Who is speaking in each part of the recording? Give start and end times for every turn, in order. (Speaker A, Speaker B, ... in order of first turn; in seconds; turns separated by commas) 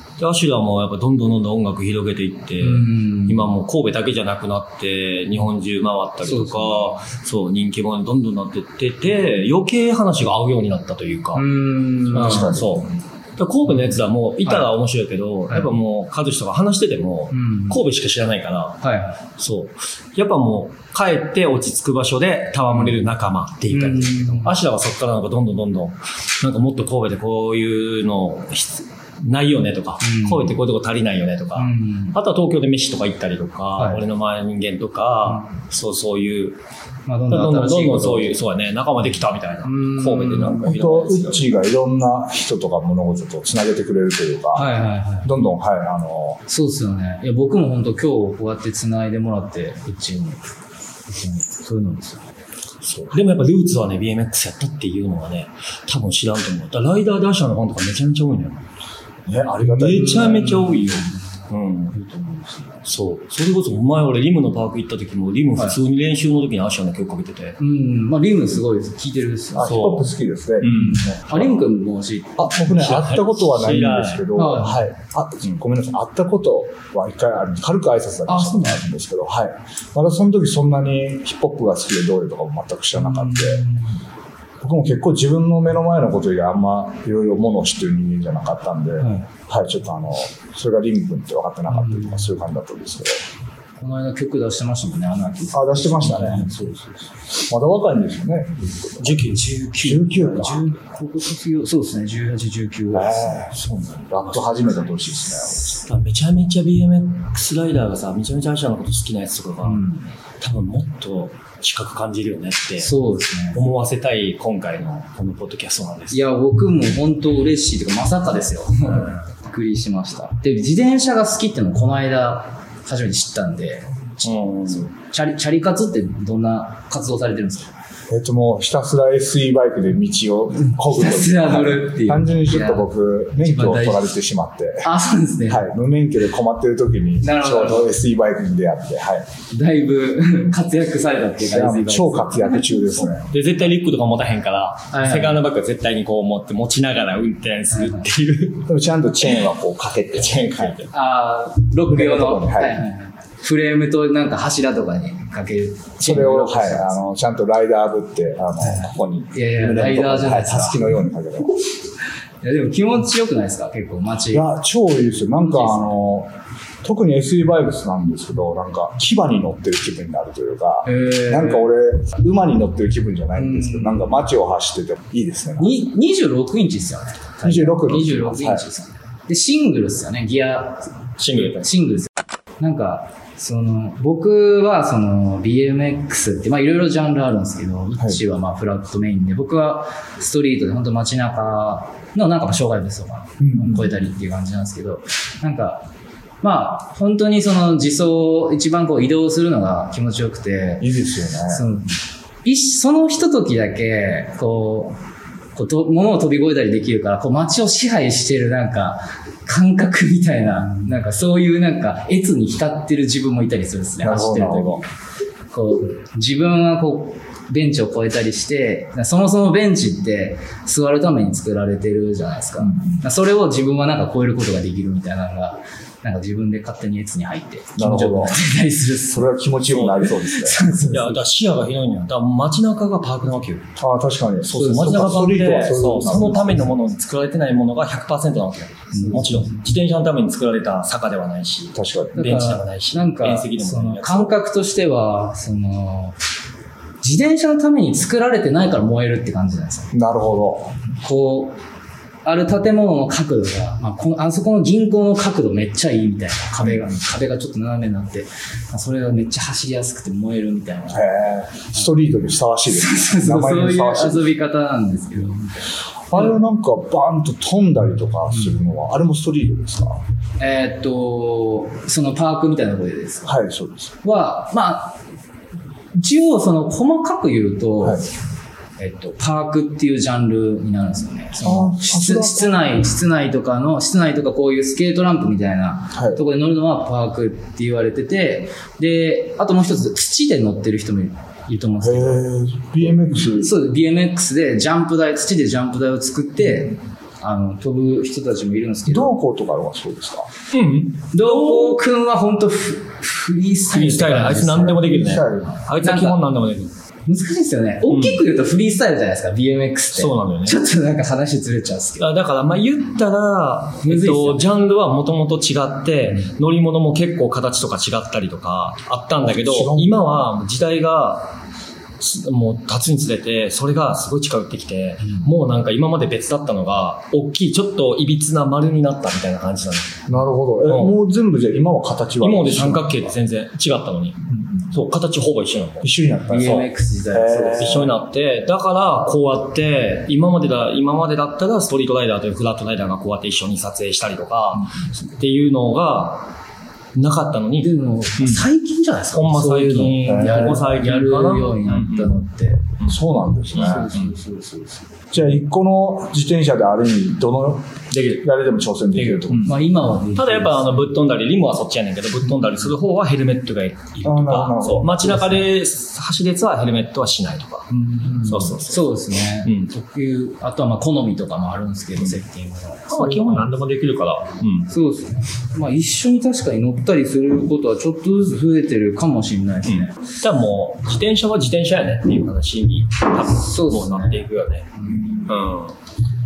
Speaker A: 0.2-11.5, Speaker B: 2.6-3.5, Speaker B: 6.2-7.0, Speaker B: 11.3-12.7, Speaker C: 12.1-12.8, Speaker A: 12.1-18.8, Speaker B: 17.3-17.8, Speaker B: 18.8-19.2, Speaker A: 19.4-36.6, Speaker B: 22.7-23.0, Speaker B: 23.7-24.5, Speaker B: 30.0-30.5, Speaker B: 31.6-32.2, Speaker B: 33.8-34.0, Speaker B: 37.1-38.3, Speaker A: 37.3-41.6, Speaker B: 39.6-40.7, Speaker C: 40.6-46.4, Speaker B: 44.5-45.3, Speaker B: 46.5-50.4, Speaker B: 51.1-52.2, Speaker A: 52.9-58.6, Speaker C: 59.3-60.7, Speaker A: 59.7-62.0, Speaker B: 60.1-61.1, Speaker B: 61.9-62.9, Speaker A: 62.9-67.6, Speaker B: 67.6-70.0, Speaker C: 69.5-71.5, Speaker A: 69.7-70.1, Speaker A: 70.6-71.0, Speaker B: 70.6-72.5, Speaker C: 72.4-83.6, Speaker A: 72.6-74.3, Speaker B: 74.4-74.8, Speaker B: 78.3-78.8, Speaker B: 83.0-84.0, Speaker C: 84.6-93.2, Speaker B: 89.0-89.3, Speaker B: 91.7-92.3, Speaker B: 93.8-96.7, Speaker C: 95.5-99.2, Speaker A: 99.0-99.6, Speaker B: 99.1-103.5, Speaker C: 99.8-100.7, Speaker C: 102.9-105.7, Speaker A: 104.3-104.7, Speaker A: 105.7-109.8, Speaker B: 109.6-110.1, Speaker A: 110.4-113.0, Speaker B: 112.8-113.6, Speaker A: 113.5-116.2, Speaker B: 116.1-127.8, Speaker A: 118.9-119.2, Speaker A: 124.2-124.9, Speaker C: 128.1-134.9, Speaker B: 130.8-134.1, Speaker B: 134.8-135.7, Speaker C: 135.5-139.3, Speaker B: 137.2-137.9, Speaker B: 139.5-143.1, Speaker C: 141.5-143.3, Speaker A: 143.3-148.7, Speaker B: 144.9-145.4, Speaker B: 147.7-148.1, Speaker C: 148.7-150.8, Speaker A: 150.2-150.9, Speaker B: 150.9-157.0, Speaker C: 151.8-152.8, Speaker C: 156.0-161.6, Speaker B: 158.6-161.0, Speaker B: 162.4-164.5, Speaker C: 164.3-166.3, Speaker B: 165.4-166.0, Speaker C: 166.8-175.8, Speaker B: 170.9-171.7, Speaker B: 173.4-174.1, Speaker B: 175.6-195.9, Speaker C: 177.4-178.7, Speaker A: 181.2-181.7, Speaker C: 193.4-193.9, Speaker B: 196.4-200.9, Speaker C: 200.8-201.7, Speaker B: 201.5-201.9, Speaker B: 202.4-205.0, Speaker B: 205.6-214.8, Speaker C: 214.0-214.8, Speaker B: 215.5-229.4, Speaker C: 222.6-223.0, Speaker C: 227.8-228.4, Speaker C: 229.1-230.6, Speaker A: 229.7-230.1, Speaker B: 230.2-231.2, Speaker A: 230.9-233.7, Speaker C: 233.8-236.8, Speaker A: 234.5-244.3, Speaker B: 234.7-235.1, Speaker B: 238.9-239.6, Speaker C: 241.7-242.3, Speaker B: 242.2-246.2, Speaker B: 247.0-249.9, Speaker C: 249.9-250.8, Speaker B: 251.0-251.6, Speaker B: 252.2-261.1, Speaker C: 260.9-264.3, Speaker B: 262.7-265.6, Speaker C: 266.1-270.0, Speaker B: 270.4-273.3, Speaker C: 273.2-273.9, Speaker B: 274.0-275.0, Speaker B: 275.9-278.1, Speaker B: 278.8-292.3, Speaker C: 281.4-282.6, Speaker C: 285.9-286.2, Speaker C: 291.8-293.6, Speaker B: 293.4-299.2, Speaker C: 298.9-300.3, Speaker A: 300.5-301.7, Speaker B: 301.1-304.9, Speaker A: 303.7-306.7, Speaker C: 304.5-305.7, Speaker B: 305.8-306.2, Speaker B: 307.1-312.1, Speaker A: 307.9-308.2, Speaker A: 309.9-310.6, Speaker A: 312.0-321.4, Speaker B: 313.8-314.5, Speaker C: 319.2-320.2, Speaker A: 322.0-330.1, Speaker C: 330.1-333.1, Speaker A: 330.7-330.9, Speaker A: 332.2-336.7, Speaker C: 334.4-334.7, Speaker C: 335.8-338.0, Speaker B: 336.3-337.9, Speaker A: 337.6-346.3, Speaker A: 346.9-348.5, Speaker B: 347.6-352.6, Speaker A: 349.1-352.2, Speaker C: 350.0-350.6, Speaker C: 352.9-354.0, Speaker B: 353.5-354.9, Speaker A: 353.6-354.1, Speaker C: 355.1-359.6, Speaker A: 357.9-358.3, Speaker A: 358.9-369.7, Speaker B: 359.4-360.9, Speaker C: 364.0-365.3, Speaker C: 367.7-368.6, Speaker B: 368.2-373.5, Speaker A: 372.9-374.7, Speaker B: 374.7-379.9, Speaker A: 379.7-384.7, Speaker B: 383.3-385.2, Speaker A: 385.3-385.8